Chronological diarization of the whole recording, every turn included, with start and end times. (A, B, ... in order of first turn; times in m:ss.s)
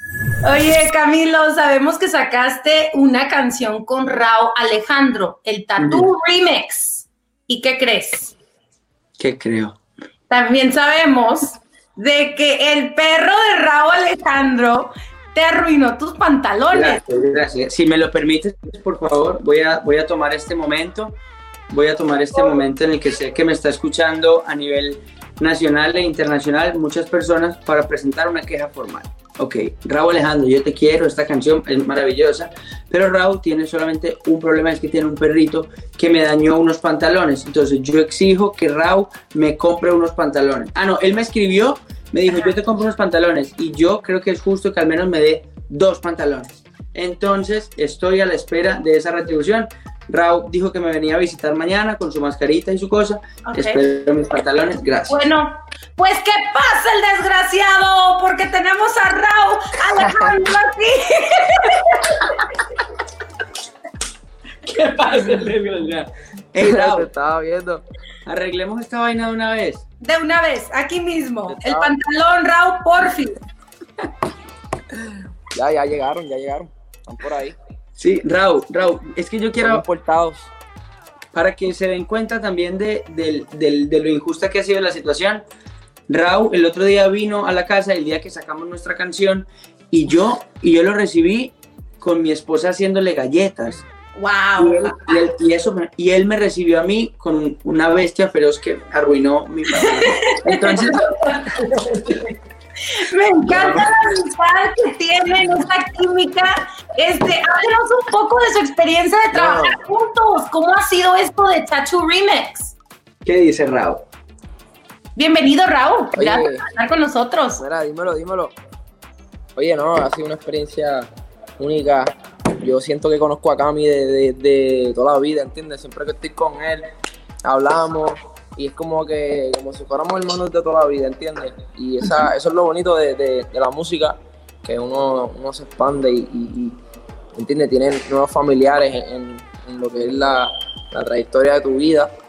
0:00.4-0:08.4 A
0:05.8-0:06.1 B
0:09.2-0:09.8 B
0:10.3-0:17.0 A
0:16.7-0:21.2 B
0:21.7-0:55.2 B
0:53.5-0:53.8 A
0:55.1-1:02.2 A
1:04.7-1:07.1 B
1:06.6-1:07.8 C
1:08.3-1:09.8 B
1:10.0-1:13.4 A
1:11.5-1:11.9 C
1:15.5-1:17.6 C
1:18.0-1:19.8 B
1:19.6-1:20.5 C
1:21.3-1:25.4 B
1:26.1-1:33.8 B
1:34.2-1:35.2 A
1:34.6-1:42.1 B
1:39.8-1:42.3 A
1:42.9-1:52.8 A
1:43.5-1:43.9 B
1:49.3-1:49.8 C
1:53.2-1:54.0 B
1:55.2-1:57.6 A
1:56.2-1:56.6 C
1:57.6-1:58.5 C
1:59.6-2:06.9 C
2:07.4-2:16.8 C
2:17.4-2:22.1 C